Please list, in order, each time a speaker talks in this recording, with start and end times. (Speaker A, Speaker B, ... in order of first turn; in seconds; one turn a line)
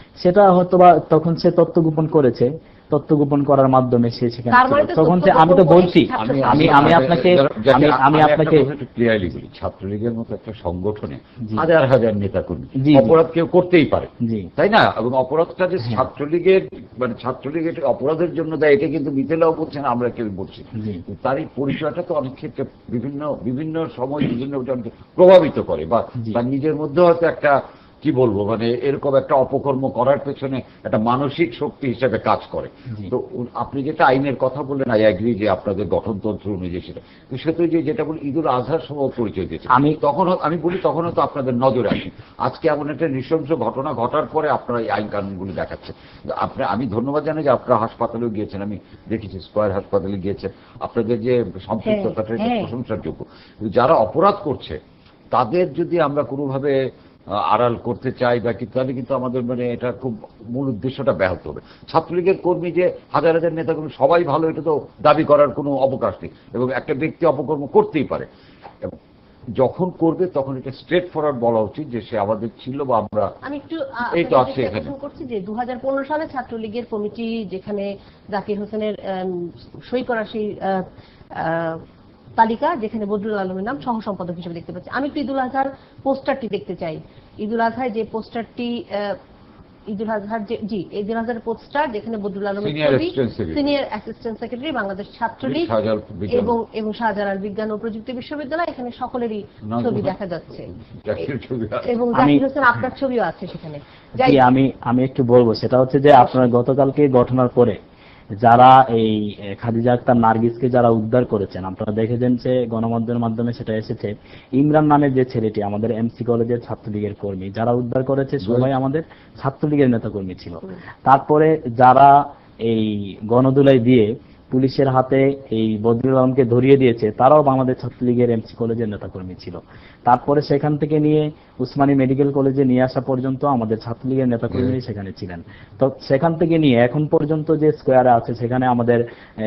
Speaker A: 0.2-8.7
Speaker B: 4.5-7.0
Speaker C: 6.2-54.8
Speaker A: 12.8-13.2
Speaker A: 20.8-21.0
Speaker A: 39.7-40.0
Speaker B: 51.8-52.7
Speaker C: 55.3-56.8
Speaker C: 57.4-68.3
Speaker C: 69.6-73.3
Speaker B: 73.5-80.8
Speaker C: 74.2-74.9
Speaker B: 81.4-81.8
Speaker B: 82.4-89.2
Speaker B: 89.9-95.7
Speaker C: 92.6-93.7
Speaker C: 95.4-96.6
Speaker B: 96.3-100.7
Speaker C: 99.7-100.2
Speaker C: 101.0-101.9
Speaker B: 101.8-104.4
Speaker A: 102.1-102.4
Speaker A: 104.2-107.8
Speaker A: 108.4-122.1
Speaker C: 118.4-118.7
Speaker A: 122.7-139.0
Speaker C: 134.5-134.8